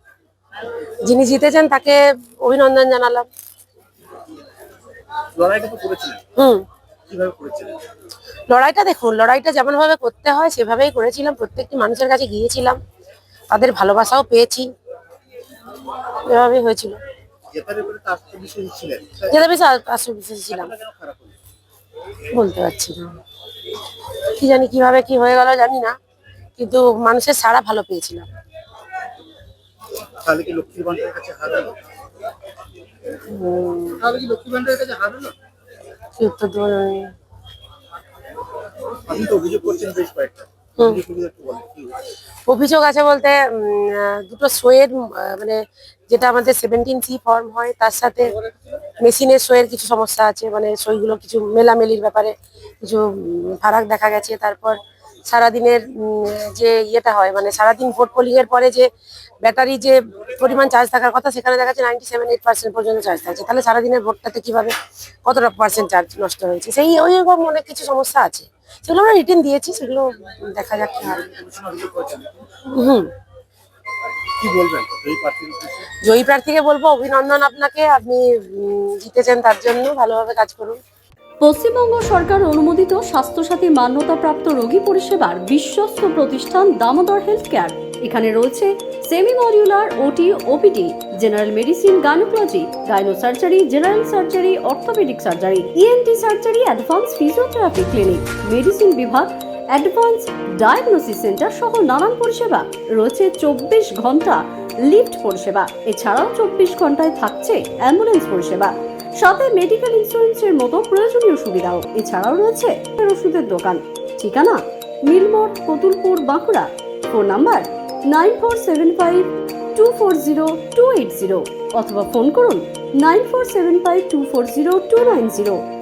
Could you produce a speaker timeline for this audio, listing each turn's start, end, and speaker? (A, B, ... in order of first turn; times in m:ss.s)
0:01.0-0:03.3 A
0:05.4-0:06.2 B
0:06.4-0:06.6 A
0:07.1-0:07.8 B
0:08.5-0:12.8 A
0:13.5-0:14.7 A
0:16.0-0:17.0 A
0:17.5-0:19.4 B
0:19.3-0:20.7 A
0:20.5-0:21.3 B
0:22.3-0:23.1 A
0:24.2-0:25.9 A
0:26.6-0:28.2 A
0:30.2-0:31.8 B
0:33.3-0:34.1 A
0:34.0-0:35.3 B
0:36.2-0:37.1 A
0:39.0-0:42.1 B
0:40.8-0:41.0 A
0:42.5-0:48.3 A
0:49.0-0:58.9 A
0:59.4-1:04.7 A
1:05.2-1:11.2 A
1:11.1-1:12.4 B
1:12.7-1:13.1 A
1:14.4-1:15.9 B
1:16.0-1:20.8 A
1:21.4-2:05.6 C